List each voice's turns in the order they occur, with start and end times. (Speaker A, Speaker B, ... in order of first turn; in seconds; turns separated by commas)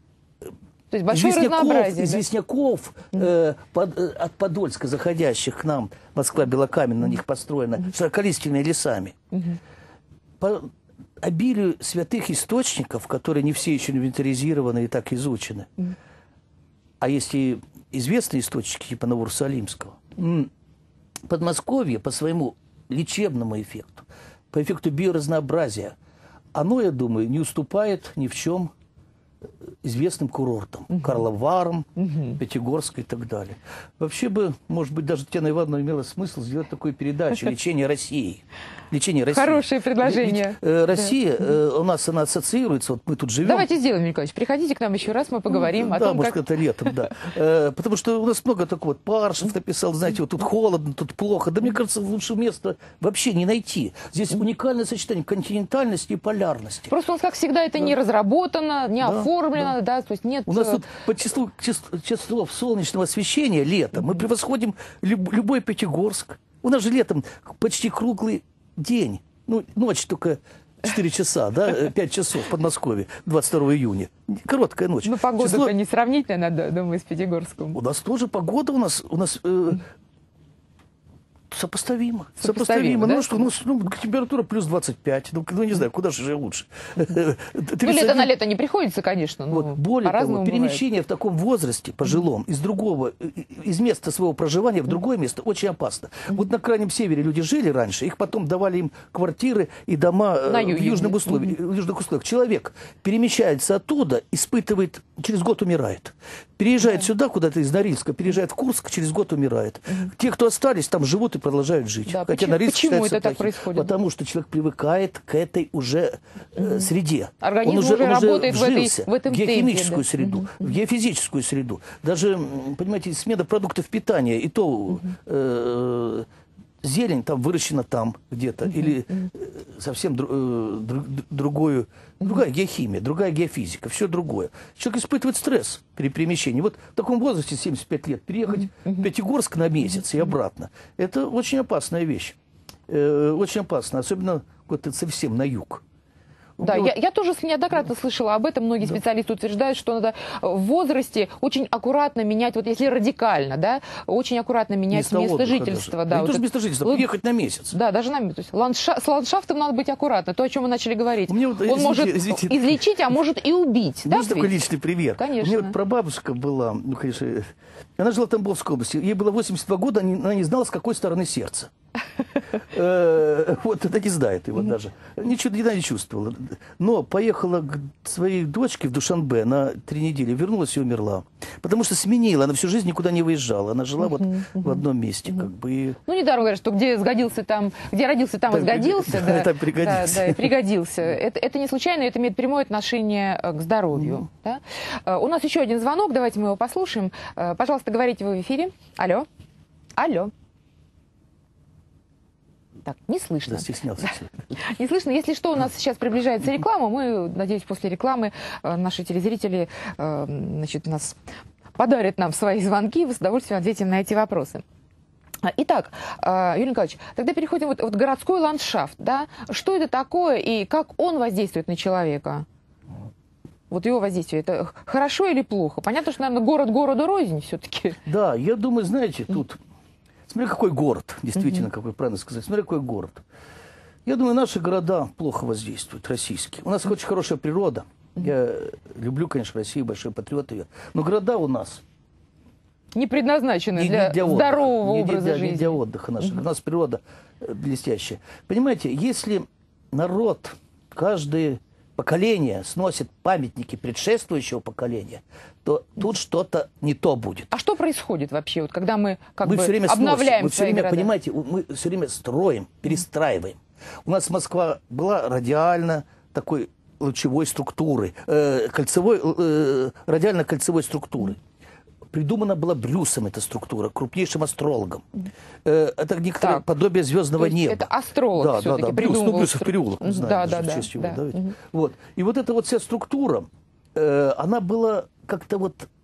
Speaker A: 0.9-2.2, Speaker B: 1.1-9.2, Speaker A: 9.3-9.6, Speaker B: 10.4-10.7, Speaker B: 11.2-15.7, Speaker B: 17.0-20.5, Speaker B: 21.3-25.9, Speaker B: 26.5-28.7, Speaker B: 29.8-43.7, Speaker A: 30.9-31.1, Speaker A: 32.0-32.4, Speaker A: 39.3-40.6, Speaker A: 43.4-46.4, Speaker B: 45.5-56.9, Speaker A: 56.9-60.8, Speaker B: 59.0-59.7, Speaker B: 60.5-75.7, Speaker A: 75.0-77.8, Speaker B: 77.7-79.8, Speaker B: 81.5-88.3, Speaker A: 82.4-83.5, Speaker A: 87.8-90.8, Speaker B: 89.5-126.3, Speaker A: 100.5-101.5, Speaker A: 112.1-113.9, Speaker A: 116.6-116.8, Speaker A: 117.4-120.6, Speaker B: 126.8-142.4, Speaker B: 142.9-145.8, Speaker B: 146.6-146.9, Speaker A: 146.6-157.0, Speaker B: 154.9-157.7, Speaker A: 157.7-164.5, Speaker B: 161.3-162.9, Speaker B: 164.1-171.7, Speaker A: 165.2-165.7, Speaker B: 172.6-186.0, Speaker A: 184.4-184.8, Speaker A: 186.1-199.3, Speaker B: 188.5-190.5, Speaker A: 200.0-200.3, Speaker A: 202.8-211.2, Speaker B: 203.4-204.3, Speaker A: 211.8-214.6, Speaker A: 215.4-222.4, Speaker A: 223.7-228.0, Speaker B: 228.1-229.6, Speaker B: 230.3-233.2, Speaker B: 234.1-241.8, Speaker A: 242.9-245.8, Speaker B: 243.7-257.5, Speaker A: 257.5-261.1, Speaker B: 259.4-271.4, Speaker B: 272.1-275.1, Speaker B: 275.6-285.9, Speaker A: 277.4-281.5